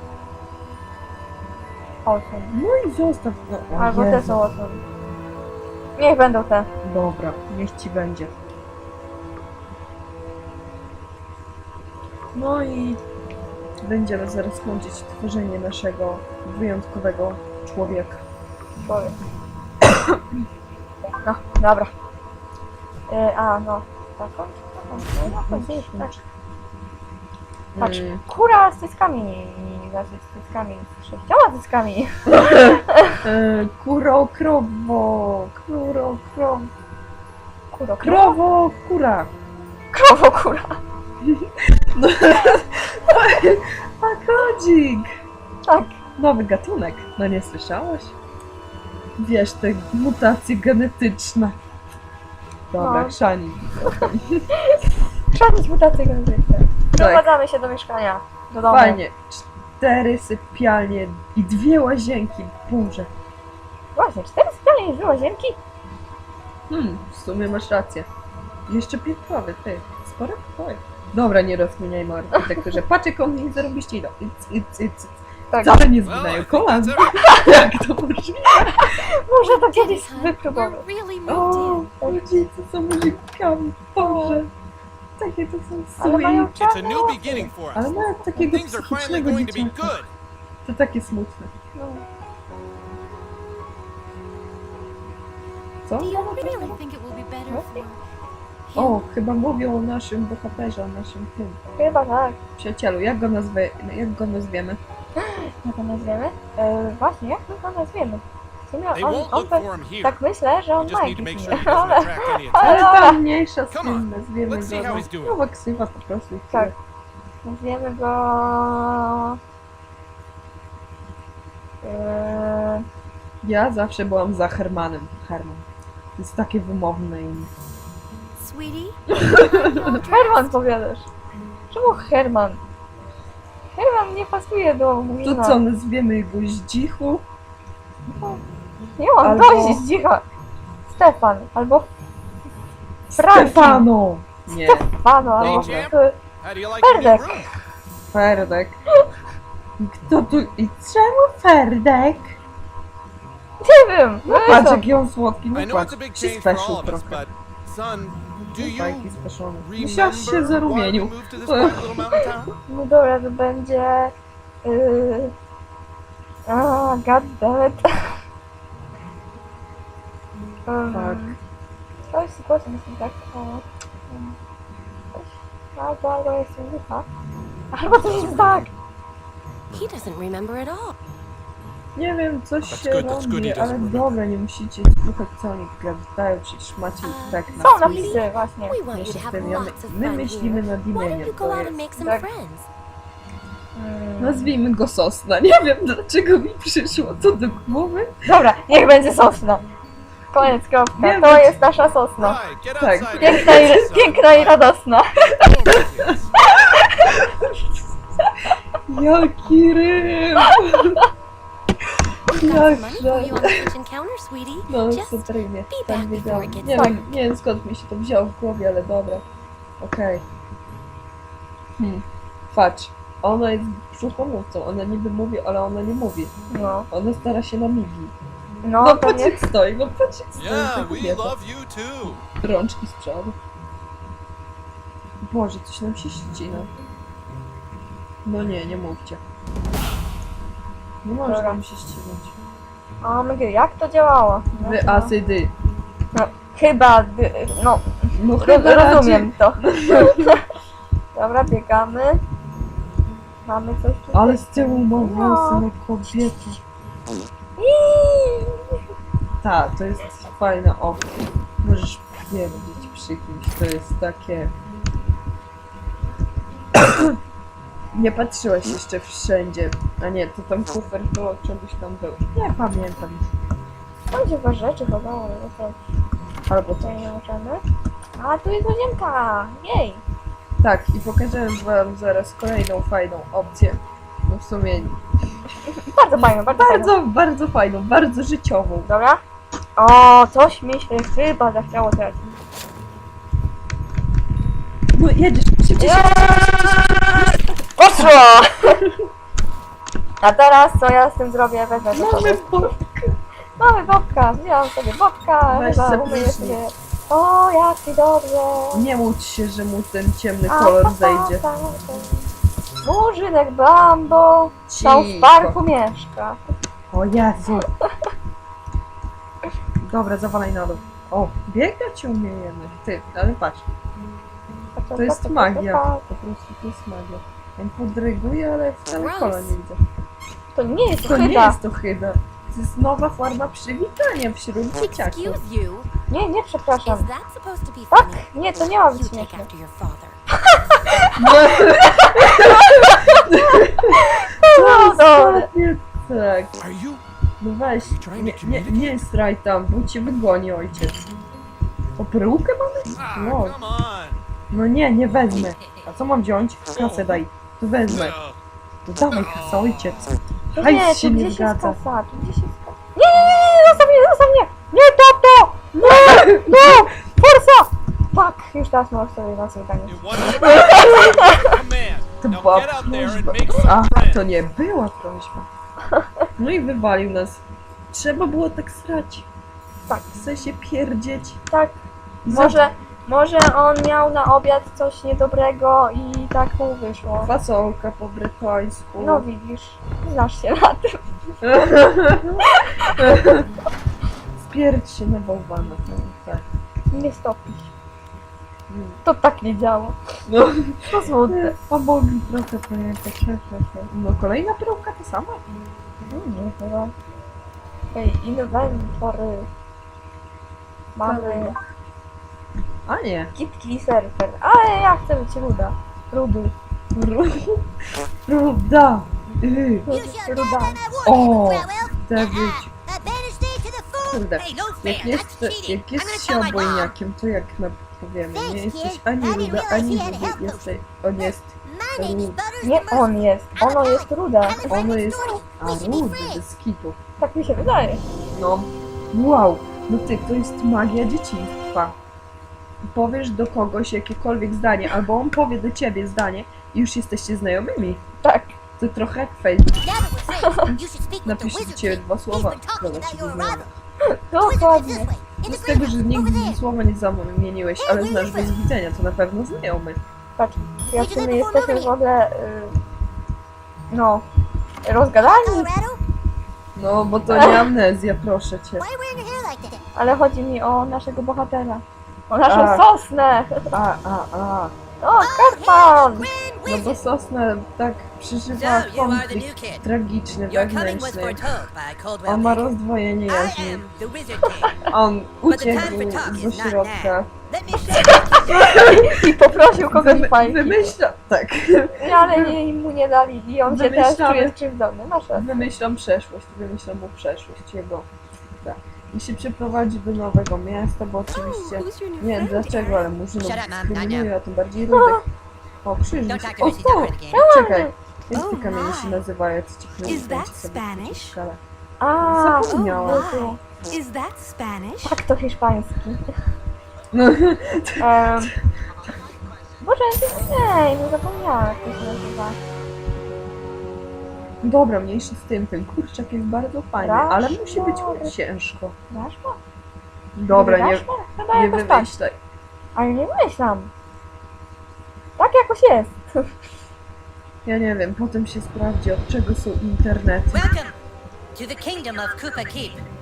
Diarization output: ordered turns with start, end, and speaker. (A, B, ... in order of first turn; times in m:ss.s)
0:02.0-0:02.5 A
0:02.5-0:04.4 B
0:03.8-0:04.8 A
0:06.0-0:06.7 A
0:06.8-0:08.3 B
0:12.4-0:13.0 B
0:13.8-0:18.2 B
0:18.8-0:19.2 A
0:21.2-0:21.9 A
0:23.1-0:26.1 A
0:25.2-0:26.2 B
0:27.8-0:28.2 B
0:27.8-0:33.2 A
0:32.3-0:36.3 B
0:36.4-0:36.7 A
0:37.7-0:38.4 A
0:38.0-0:39.3 B
0:39.9-0:40.8 A
0:41.2-0:45.1 B
0:45.7-0:45.9 A
0:46.2-0:48.1 B
0:49.2-0:51.6 B
0:52.7-0:54.5 B
0:52.8-0:53.2 A
0:55.3-0:59.0 A
0:57.0-0:57.3 B
0:58.7-1:03.1 B
1:04.0-1:05.6 A
1:06.7-1:08.1 B
1:08.7-1:18.9 B
1:15.5-1:15.9 A
1:16.0-1:17.4 C
1:18.7-1:20.8 A
1:19.4-1:21.9 D
1:21.3-1:24.5 B
1:24.0-1:24.4 A
1:25.2-1:26.5 B
1:26.0-1:27.5 A
1:26.5-1:30.1 C
1:27.8-1:30.0 B
1:30.6-1:31.5 B
1:31.8-1:32.0 A
1:35.9-1:36.8 B
1:36.0-1:38.0 D
1:37.5-1:37.8 A
1:38.7-1:39.1 D
1:38.8-1:41.6 B
1:41.8-1:42.4 A
1:42.6-1:44.8 B
1:45.2-1:53.2 A
1:48.9-1:50.2 C
1:50.8-1:53.0 C
1:52.6-1:56.7 B
1:53.7-1:55.4 C
1:57.4-1:59.4 A
2:01.8-2:02.8 A
2:03.4-2:05.6 B
2:06.2-2:07.5 B
2:08.4-2:10.6 D
2:09.2-2:09.6 B
2:09.8-2:11.1 A
2:11.7-2:12.6 A
2:13.7-2:15.6 A
2:15.2-2:17.2 B
2:18.1-2:18.4 A
2:19.0-2:20.2 A
2:19.2-2:19.9 B
2:20.9-2:21.9 A
2:23.1-2:25.9 B
2:23.2-2:23.9 A
2:24.5-2:26.2 A
2:25.4-2:27.5 C
2:26.8-2:27.4 A
2:28.1-2:28.8 B
2:29.8-2:32.4 B
2:33.6-2:34.9 A
2:34.3-2:37.2 B
2:35.5-2:42.5 C
2:38.6-2:42.0 B
2:42.7-2:45.3 A
2:46.5-2:48.2 A
2:50.7-2:51.4 A
2:50.9-2:51.4 B
2:52.1-2:54.4 A
2:55.1-2:57.1 A
2:57.7-2:58.7 A
2:58.0-2:58.7 C
2:59.7-3:00.9 D
3:02.0-3:08.2 B
3:02.7-3:04.2 C
3:07.0-3:12.7 D
3:07.6-3:08.8 A
3:08.9-3:11.8 B
3:12.0-3:12.3 A
3:13.8-3:14.5 A
3:14.2-3:18.1 B
3:18.3-3:19.6 A
3:20.3-3:22.4 A
3:21.0-3:21.5 B
3:22.2-3:24.6 C
3:22.8-3:23.9 B
3:23.2-3:25.4 A
3:25.4-3:26.2 C
3:25.7-3:26.1 B
3:26.6-3:27.2 A
3:28.9-3:31.0 B
3:32.3-3:36.9 D
3:32.4-3:33.7 B
3:34.7-3:39.2 B
3:36.6-3:37.0 A
3:39.8-3:40.2 B
3:41.8-3:46.3 B
3:46.5-3:46.9 A
3:46.9-3:48.1 B
3:48.6-3:49.4 A
3:48.8-3:51.4 B
3:50.4-3:52.2 C
3:52.4-3:53.4 B
3:55.2-3:56.7 B
3:58.2-3:59.2 B
4:01.0-4:02.4 B
4:01.3-4:01.6 A
4:03.0-4:05.1 A
4:04.6-4:05.5 B
4:06.1-4:10.4 A
4:08.2-4:10.4 B
4:11.1-4:12.2 A
4:13.5-4:15.6 A
4:14.1-4:16.6 B
4:17.6-4:18.8 A
4:19.4-4:24.5 B
4:26.8-4:27.2 B
4:27.9-4:33.3 B
4:34.1-4:35.8 A
4:36.5-4:37.1 B
4:36.8-4:37.6 A
4:38.2-4:40.0 A
4:40.6-4:45.0 B
4:45.8-4:46.9 A
4:46.2-4:48.9 B
4:48.9-4:49.2 A
4:49.8-4:52.2 A
4:54.9-4:57.1 B
4:55.8-4:56.8 A
4:57.8-4:58.8 A
5:00.2-5:02.6 A
5:01.9-5:03.2 B
5:03.6-5:08.8 A
5:05.5-5:06.6 B
5:08.7-5:11.4 B
5:10.5-5:12.3 A
5:12.8-5:16.4 A
5:14.7-5:15.6 B
5:16.9-5:17.7 B
5:19.8-5:23.7 B
5:24.8-5:26.0 A
5:25.0-5:29.8 B
5:28.9-5:29.6 D
5:30.6-5:31.6 A
5:31.0-5:35.4 B
5:34.7-5:35.9 D
5:36.1-5:37.1 A
5:36.8-5:40.2 D
5:37.9-5:39.5 A
5:40.5-5:41.1 A
5:41.2-5:46.6 B
5:41.8-5:45.5 A
5:46.6-5:47.0 C
5:47.4-5:51.0 B
5:47.9-5:49.0 C
5:52.0-5:53.6 B
5:52.9-5:54.2 C
5:54.5-5:58.2 B
5:56.7-5:57.2 C
5:57.9-5:58.4 C
5:58.9-6:01.8 B
5:59.0-6:00.1 C
6:00.6-6:11.5 A
6:05.8-6:06.9 B
6:09.9-6:14.3 C
6:12.2-6:15.5 B
6:16.4-6:19.3 B
6:20.1-6:21.4 B
6:21.5-6:27.3 A
6:22.3-6:22.6 B
6:27.2-6:29.3 B
6:29.0-6:31.0 A
6:31.4-6:32.4 B
6:32.4-6:33.4 A
6:33.0-6:33.5 B
6:34.4-6:36.4 B
6:36.9-6:37.7 A
6:38.7-6:39.0 B
6:39.0-6:40.0 A
6:40.3-6:45.4 B
6:40.9-6:41.6 A
6:46.1-6:46.9 A
6:47.9-6:49.5 A
6:51.0-6:51.6 A
6:51.0-6:51.5 B
6:52.9-6:53.3 B
6:53.4-6:56.5 A
6:56.9-6:57.7 B
6:58.3-6:59.9 B
6:59.9-7:00.8 A
6:59.9-7:07.0 E
7:01.0-7:02.7 B
7:04.1-7:12.4 B
7:08.4-7:10.6 E
7:08.6-7:09.1 D
7:11.7-7:16.4 E
7:12.6-7:14.8 A
7:14.7-7:17.0 B
7:17.2-7:18.0 A
7:18.3-7:22.0 B
7:22.9-7:28.0 B
7:28.2-7:28.5 A
7:28.8-7:29.8 B
7:29.8-7:31.2 E
7:30.3-7:33.1 D
7:31.2-7:33.7 B
7:32.6-7:33.7 E
7:34.1-7:35.1 A
7:34.4-7:35.5 E
7:35.3-7:36.6 D
7:35.4-7:40.0 B
7:37.8-7:38.5 D
7:40.4-7:42.8 A
7:41.0-7:41.9 E
7:43.9-7:44.2 A
7:44.8-7:45.7 A
7:45.5-7:45.9 D
7:46.8-7:48.9 B
7:47.3-7:47.7 A
7:48.8-7:49.8 E
7:50.0-7:53.7 A
7:52.5-7:52.8 B
7:53.7-7:54.7 B
7:55.0-7:56.3 A
7:55.2-7:57.0 E
7:56.7-8:01.5 B
7:58.5-7:59.8 E
8:00.5-8:02.7 E
8:02.3-8:03.9 B
8:03.3-8:04.8 E
8:04.9-8:07.3 B
8:05.5-8:08.7 E
8:08.4-8:11.0 A
8:08.6-8:12.6 B
8:12.0-8:15.7 A
8:13.7-8:14.6 B
8:15.3-8:18.1 B
8:18.6-8:25.2 B
8:21.3-8:23.1 D
8:23.4-8:24.3 E
8:24.9-8:25.2 A
8:25.8-8:31.6 B
8:26.3-8:27.4 E
8:26.6-8:27.9 A
8:28.3-8:29.2 D
8:30.0-8:31.4 D
8:32.0-8:33.6 A
8:32.2-8:33.4 B
8:32.6-8:35.2 D
8:35.0-8:36.2 A
8:37.1-8:38.5 B
8:38.0-8:38.5 A
8:39.8-8:42.6 A
8:44.6-8:49.0 B
8:47.0-8:48.3 A
8:49.1-8:49.6 A
8:50.4-8:52.4 B
8:50.5-8:52.1 A
8:53.0-8:53.9 A
8:55.4-8:56.5 A
8:57.6-9:00.7 B
9:00.5-9:01.0 E
9:01.5-9:03.0 E